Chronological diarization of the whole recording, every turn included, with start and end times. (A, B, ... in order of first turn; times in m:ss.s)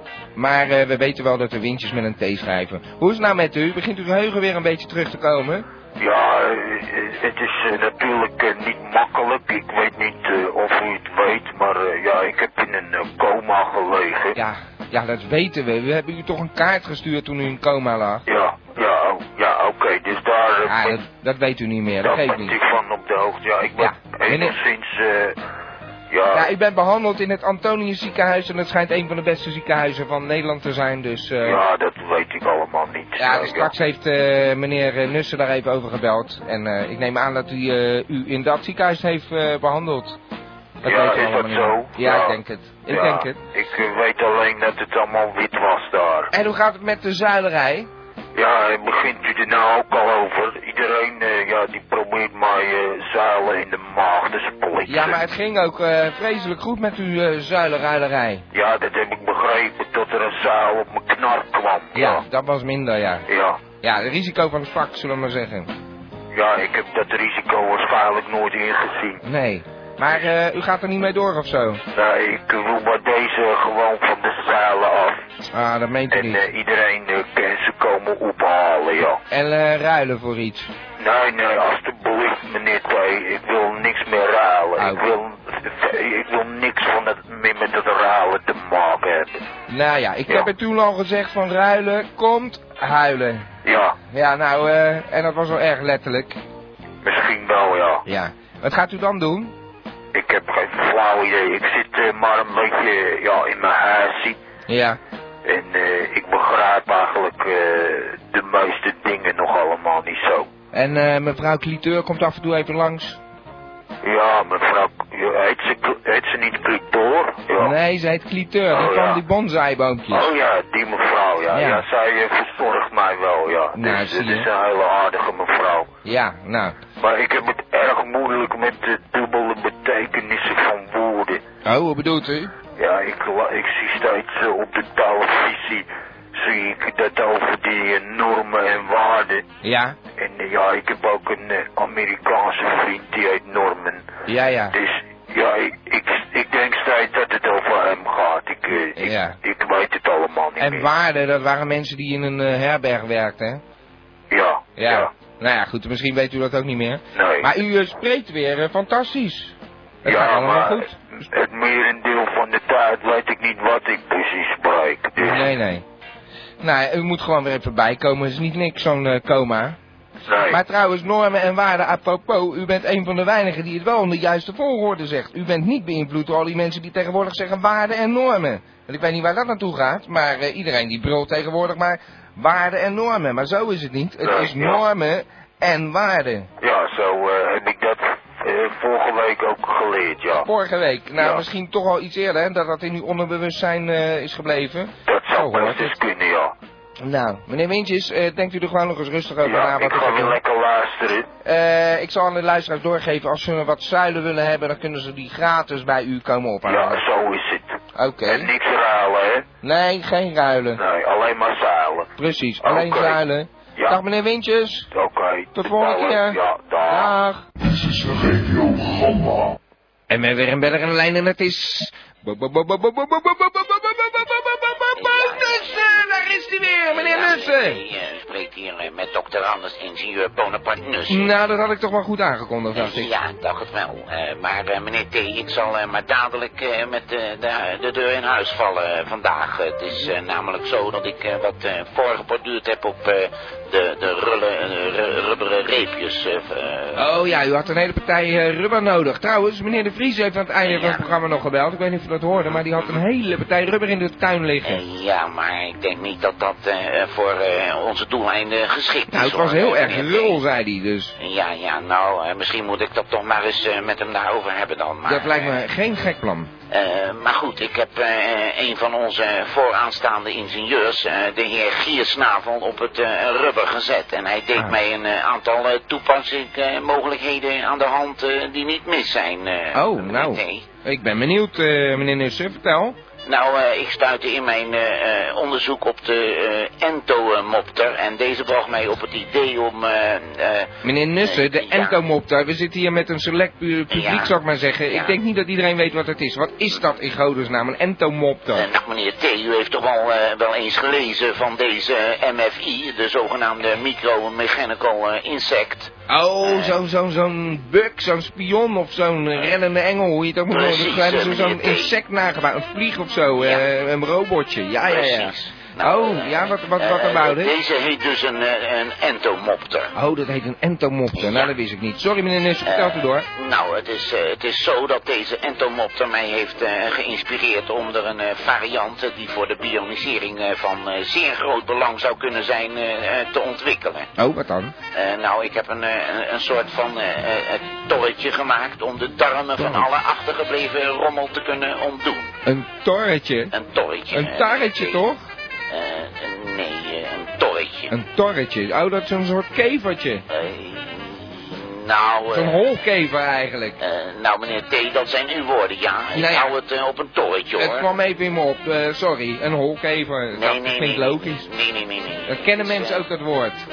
0:00.3-0:05.6 A
0:06.0-0:14.4 B
0:14.3-0:18.2 A
0:18.3-0:21.0 B
0:20.6-0:22.6 A
0:22.0-0:25.4 B
0:23.8-0:24.6 A
0:26.1-0:26.5 B
0:26.3-0:31.6 A
0:31.4-0:33.7 B
0:33.2-0:40.2 A
0:40.8-0:43.4 A
0:40.8-0:42.4 B
0:42.9-0:46.3 B
0:46.3-0:47.9 A
0:48.3-0:55.2 B
0:54.8-0:58.4 A
0:58.5-1:02.2 B
1:01.9-1:03.3 A
1:03.3-1:03.6 B
1:03.8-1:05.7 A
1:06.3-1:09.2 B
1:09.2-1:11.8 A
1:11.9-1:15.2 B
1:15.5-1:16.4 A
1:16.1-1:19.2 B
1:19.3-1:20.7 A
1:21.0-1:29.4 B
1:24.8-1:25.1 A
1:29.7-1:33.5 A
1:33.6-1:34.0 B
1:34.1-1:36.4 A
1:37.0-1:38.0 B
1:38.0-1:39.5 A
1:40.1-1:44.4 B
1:44.7-1:45.0 A
1:45.4-1:50.5 B
1:50.7-1:53.2 A
1:54.0-1:57.7 B
1:57.6-2:00.3 A
1:58.7-1:59.2 B
2:00.1-2:05.9 B
2:01.5-2:01.8 A
2:03.7-2:04.5 A
2:06.0-2:06.8 A
2:07.0-2:11.4 B
2:11.6-2:12.5 A
2:12.8-2:19.4 B
2:19.6-2:20.0 A
2:20.2-2:24.1 B
2:24.3-2:24.8 A
2:24.7-2:30.9 B
2:29.0-2:29.4 A
2:30.6-2:33.6 A
2:34.3-2:35.1 B
2:34.8-2:41.0 A
2:37.1-2:37.5 B
2:40.0-2:45.5 B
2:45.2-2:45.8 A
2:46.6-2:49.8 A
2:50.2-2:50.6 B
2:50.5-3:06.5 A
3:04.2-3:04.8 B
3:06.6-3:10.5 B
3:10.3-3:15.9 A
3:11.2-3:11.4 B
3:15.1-3:16.5 B
3:17.0-3:20.4 A
3:19.4-3:21.3 B
3:21.4-3:27.0 A
3:26.6-3:29.4 B
3:27.9-3:28.5 A
3:29.6-3:30.8 A
3:30.7-3:32.1 B
3:32.2-3:34.9 A
3:32.6-3:33.2 B
3:34.9-3:37.1 B
3:35.5-3:37.4 A
3:37.6-3:39.6 C
3:40.1-3:47.8 A
3:45.0-3:45.9 D
3:46.9-3:51.3 D
3:51.1-3:53.1 A
3:52.7-4:07.1 D
4:06.9-4:14.8 A
4:10.6-4:11.0 D
4:12.5-4:13.0 D
4:14.6-4:20.4 D
4:19.1-4:21.1 A
4:21.2-4:25.6 D
4:25.0-4:26.5 A
4:26.7-4:40.6 D
4:39.7-4:43.0 A
4:43.3-4:50.7 D
4:50.8-4:58.7 A
4:51.2-4:52.0 D
4:53.9-4:54.3 D
4:54.9-4:55.2 D
4:58.5-5:06.7 D
5:06.1-5:17.6 A
5:10.5-5:12.0 D
5:13.4-5:13.6 D
5:14.9-5:19.9 D
5:19.9-5:23.2 A
5:21.2-5:21.5 D
5:22.6-5:34.1 D
5:34.2-5:34.7 A
5:34.9-5:42.3 D
5:39.6-5:39.9 A
5:42.4-5:43.5 A
5:43.5-5:45.0 D
5:44.1-5:45.2 A
5:45.7-5:47.9 D
5:47.9-5:50.2 A
5:50.3-5:52.6 D
5:52.3-5:53.8 A
5:53.8-5:57.9 D
5:56.1-5:56.5 A
5:57.6-6:01.5 A
6:00.3-6:03.0 D
6:02.3-6:03.6 A